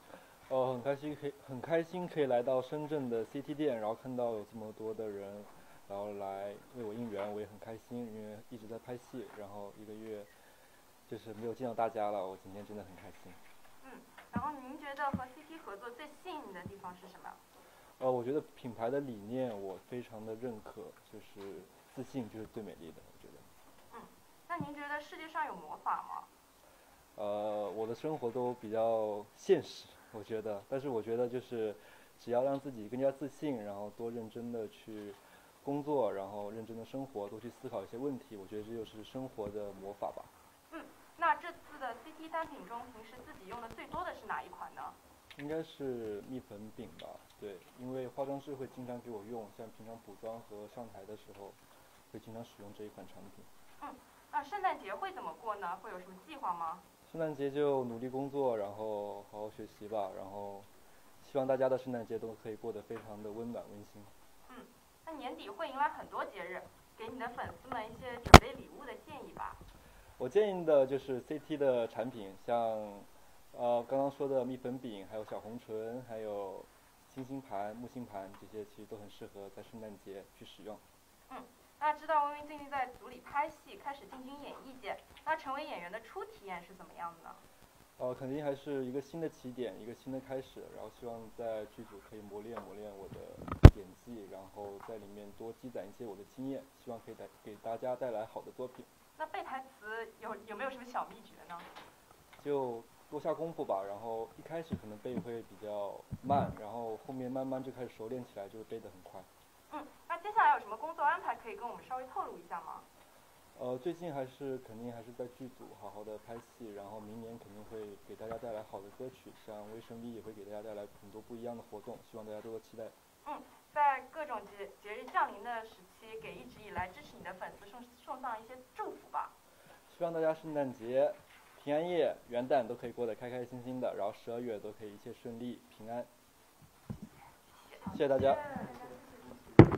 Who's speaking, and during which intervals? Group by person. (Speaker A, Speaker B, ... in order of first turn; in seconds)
Speaker A: 0.2-10.3, 11.1-13.4, 18.0-23.5, 27.2-40.3, 45.4-53.5, 57.1-60.7, 61.2-64.1, 70.2-80.8, 88.0-98.9, 102.4-109.3, 113.5-123.0, 129.9-136.1, 137.8-138.6
Speaker B: 13.8-17.4, 23.9-26.3, 40.7-45.0, 53.8-56.8, 64.5-69.6, 81.3-87.4, 99.2-101.7, 109.7-112.9, 123.2-129.3, 137.7-137.9